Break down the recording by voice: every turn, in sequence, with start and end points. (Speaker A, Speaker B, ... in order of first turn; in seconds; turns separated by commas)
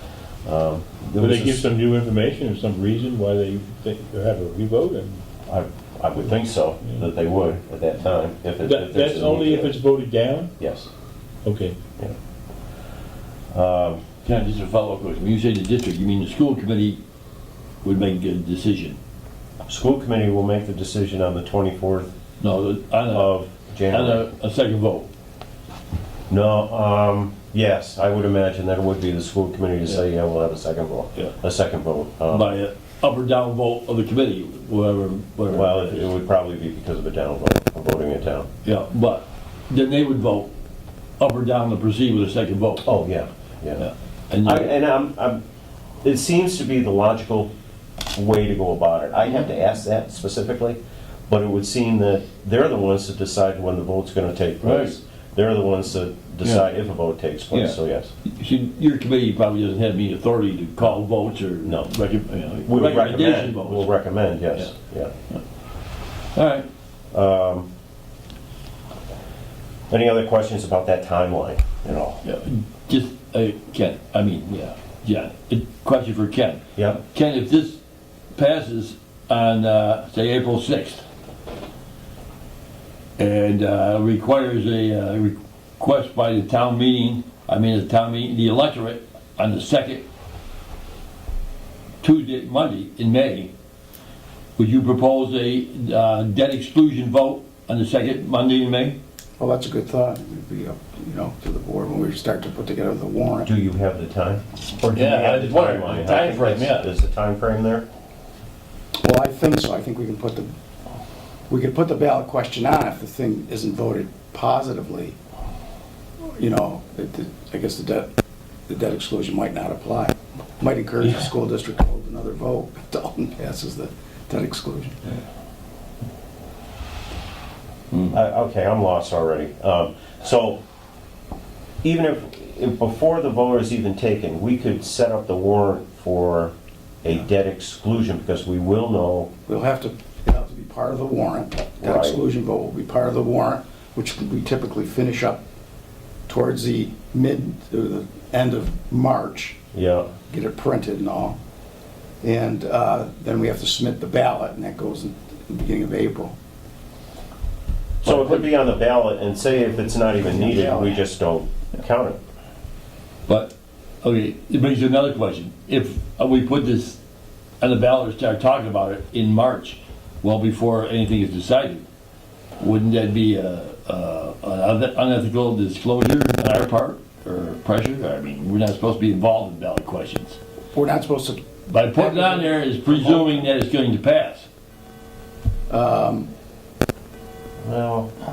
Speaker A: 0.5-1.6, Speaker B: 1.2-5.2, Speaker A: 5.5-9.8, Speaker B: 8.6-10.5, Speaker A: 10.6-10.9, Speaker B: 11.4-11.8, Speaker A: 13.5-14.0, Speaker C: 14.2-17.0, Speaker C: 17.8-19.0, Speaker A: 19.7-22.1, Speaker C: 22.4-23.4, Speaker A: 23.1-24.2, Speaker C: 23.9-25.1, Speaker A: 26.3-32.5, Speaker C: 32.3-36.1, Speaker A: 35.5-38.5, Speaker C: 38.6-40.5, Speaker C: 41.2-42.9, Speaker A: 42.9-43.9, Speaker C: 43.8-44.7, Speaker A: 44.4-45.4, Speaker A: 46.0-47.5, Speaker A: 48.1-58.1, Speaker C: 54.6-54.9, Speaker C: 56.4-56.7, Speaker C: 57.5-63.9, Speaker A: 61.6-61.9, Speaker A: 62.7-65.1, Speaker C: 66.3-66.7, Speaker A: 67.1-67.7, Speaker A: 69.9-72.2, Speaker C: 72.2-77.8, Speaker A: 76.8-77.0, Speaker C: 78.3-81.1, Speaker C: 83.2-90.1, Speaker C: 92.0-93.5, Speaker C: 94.6-99.0, Speaker D: 99.4-103.5, Speaker A: 103.5-107.9, Speaker C: 104.9-106.9, Speaker D: 109.0-110.5, Speaker D: 111.5-115.2, Speaker D: 116.3-118.1, Speaker D: 118.7-125.2, Speaker A: 128.1-130.6, Speaker A: 131.8-139.3, Speaker D: 139.5-145.4, Speaker A: 141.8-142.2, Speaker D: 146.3-149.6, Speaker A: 149.7-150.1, Speaker D: 150.3-151.4, Speaker D: 152.2-156.4, Speaker C: 158.0-158.5, Speaker A: 158.0-162.2, Speaker D: 160.2-161.0, Speaker C: 163.3-167.0, Speaker C: 167.6-171.8, Speaker C: 172.6-180.4, Speaker D: 180.7-183.5, Speaker C: 181.7-184.5, Speaker D: 185.7-186.3, Speaker A: 187.6-188.1